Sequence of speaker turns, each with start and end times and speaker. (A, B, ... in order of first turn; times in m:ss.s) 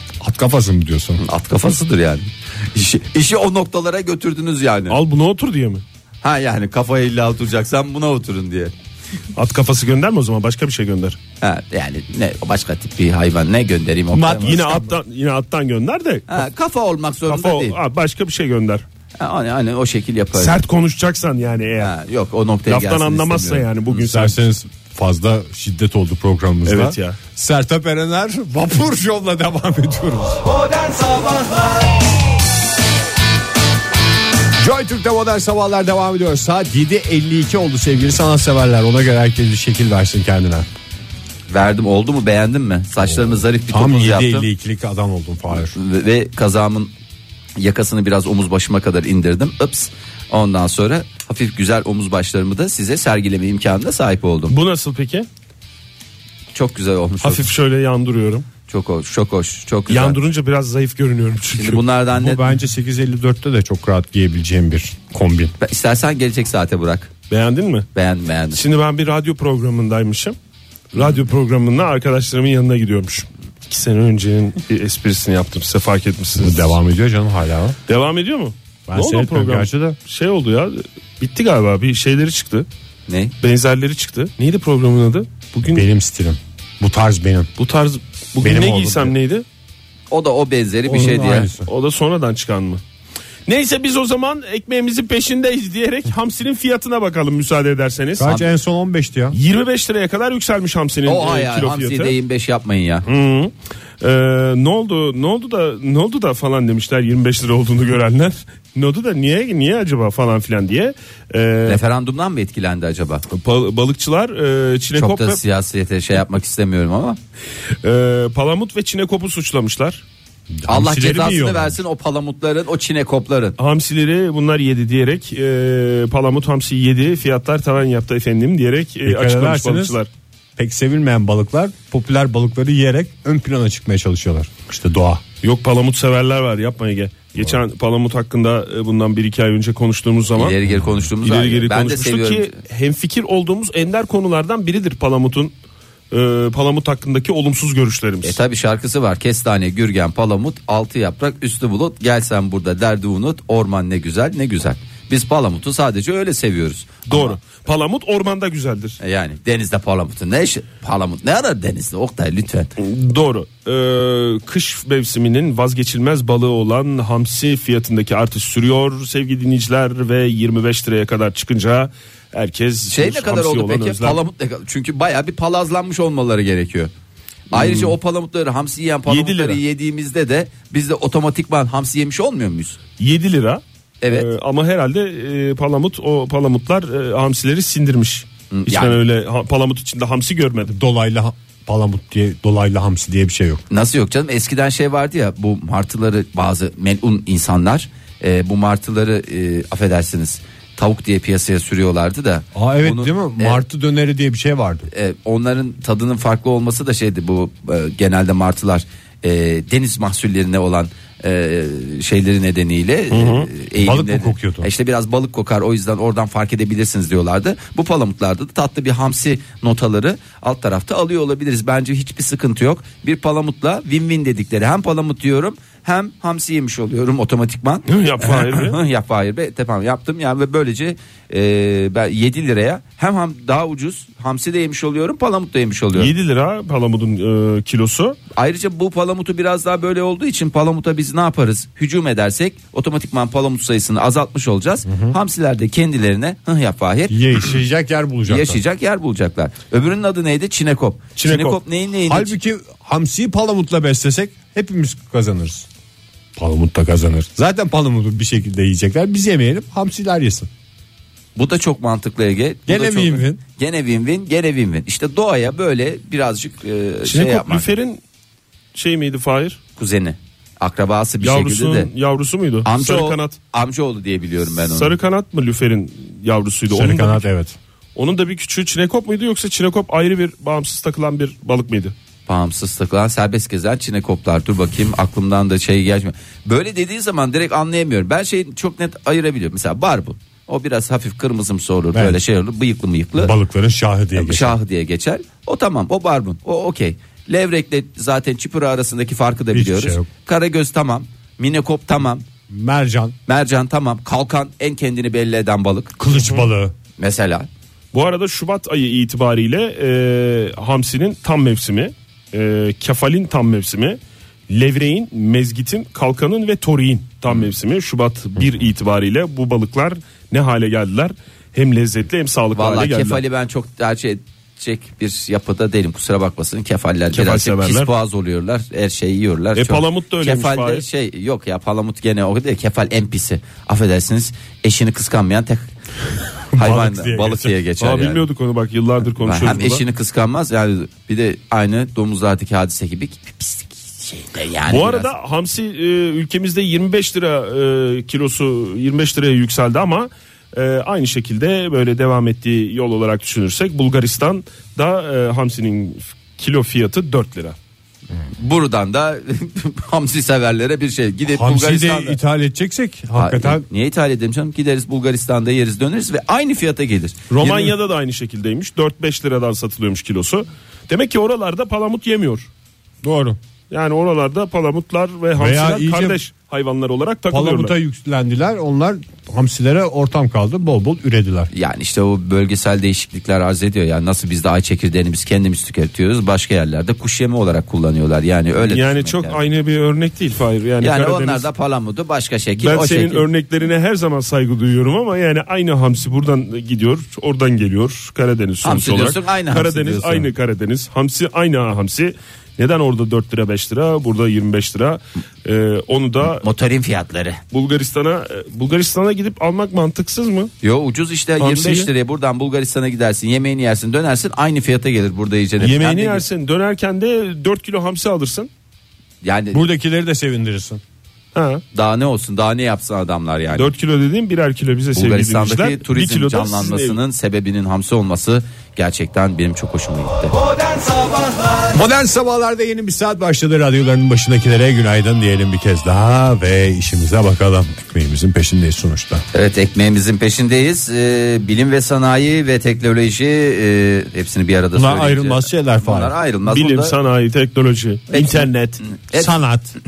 0:00.2-0:01.2 A
0:01.2-0:05.0 B
0:04.9-0:05.8 C
0:06.2-0:08.7 B
0:09.4-0:11.2 C
0:11.4-0:14.6 B
0:14.1-0:15.0 A
0:14.2-0:16.5 C
0:16.3-0:17.8 B
0:17.3-0:18.8 C
0:19.2-0:20.6 B
0:20.4-0:22.0 C
0:21.8-0:23.7 B
0:22.7-0:24.4 C
0:23.9-0:30.5 A
0:26.7-0:27.2 C
0:31.0-0:31.4 B
0:34.6-0:40.7 A
0:41.5-0:44.5 B
0:43.0-0:45.8 A
0:45.6-0:46.9 B
0:47.6-0:54.6 B
0:54.5-0:55.3 C
0:56.5-0:57.5 B
0:57.2-0:58.5 C
0:58.7-1:00.2 B
0:59.9-1:01.8 C
1:01.5-1:02.5 B
1:02.1-1:05.5 A
1:05.6-1:07.1 B
1:07.3-1:07.9 C
1:08.0-1:08.6 B
1:08.5-1:10.4 C
1:10.9-1:16.7 C
1:16.4-1:17.8 A
1:17.9-1:22.7 C
1:18.9-1:20.0 A
1:23.1-1:23.3 B
1:23.4-1:25.8 C
1:25.7-1:27.5 A
1:27.6-1:29.4 C
1:28.4-1:29.1 A
1:30.1-1:31.5 B
1:30.9-1:31.7 A
1:31.7-1:32.8 C
1:33.5-1:38.4 C
1:38.2-1:39.4 A
1:39.3-1:42.2 C
1:41.1-1:43.1 B
1:43.1-1:51.8 C
1:51.7-1:53.2 B
1:53.3-1:55.4 C
1:55.0-1:57.2 B
1:57.8-2:00.0 C
2:00.5-2:01.8 A
2:00.7-2:03.6 B
2:03.6-2:10.1 C
2:09.1-2:10.0 A
2:10.6-2:15.2 A
2:15.4-2:20.6 C
2:20.4-2:22.5 B
2:20.7-2:21.0 A
2:21.2-2:25.5 C
2:26.1-2:28.4 C
2:28.2-2:37.4 B
2:37.1-2:39.0 C
2:39.0-2:42.7 B
2:42.8-2:54.2 C
2:52.9-2:56.9 B
2:57.5-3:02.8 B
2:57.5-2:58.0 C
2:59.1-2:59.6 C
3:03.0-3:10.8 C
3:04.0-3:04.3 B
3:08.5-3:09.0 B
3:10.7-3:13.6 A
3:13.7-3:23.6 B
3:22.6-3:24.9 A
3:24.9-3:56.1 B
3:33.1-3:33.5 C
3:33.8-3:34.7 A
3:47.9-3:48.8 C
3:56.0-3:58.2 C
3:58.4-4:07.6 B
4:04.9-4:05.2 A
4:07.1-4:08.6 A
4:08.3-4:12.4 B
4:11.2-4:11.6 C
4:12.1-4:15.7 A
4:16.4-4:20.5 A
4:21.4-4:27.7 B
4:22.7-4:23.4 A
4:27.0-4:28.0 C
4:28.7-4:29.6 C
4:29.8-4:31.9 B
4:31.2-4:33.4 C
4:32.6-4:35.0 B
4:34.7-4:37.2 C
4:36.7-4:37.6 A
4:38.0-4:41.9 C
4:42.3-4:53.4 B
4:51.9-4:52.2 A
4:53.2-4:54.6 A
4:54.2-5:02.3 B
4:59.5-5:00.1 A
5:02.5-5:03.2 A
5:03.3-5:06.0 B
5:06.0-5:06.7 A
5:07.0-5:07.5 B
5:07.9-5:23.2 C
5:22.5-5:35.7 B
5:27.1-5:27.9 C
5:29.6-5:30.9 C
5:36.5-5:37.5 A
5:36.6-5:38.2 B
5:37.8-5:39.8 C
5:39.2-5:45.1 B
5:44.7-5:57.6 C
5:58.4-6:02.2 B
6:01.3-6:03.6 A
6:03.2-6:07.7 B
6:07.3-6:12.5 C
6:13.0-6:13.4 A
6:13.7-6:17.8 C
6:15.4-6:16.2 A
6:17.3-6:21.5 A
6:21.5-6:29.4 B
6:28.6-6:31.4 C
6:30.8-6:33.3 B
6:32.6-6:46.4 C
6:38.6-6:40.3 B
6:46.4-6:47.4 B
6:47.5-6:50.5 C
6:50.6-6:56.2 B
6:51.4-6:51.9 C
6:55.6-6:58.5 C
6:59.2-6:59.6 B
6:59.5-7:00.8 A
7:01.4-7:01.6 C
7:01.7-7:03.7 B
7:03.6-7:07.0 C
7:05.0-7:10.4 B
7:11.7-7:19.2 A
7:19.3-7:27.0 B
7:24.7-7:26.2 A
7:26.5-7:28.8 C
7:28.1-7:29.3 B
7:29.1-7:29.7 A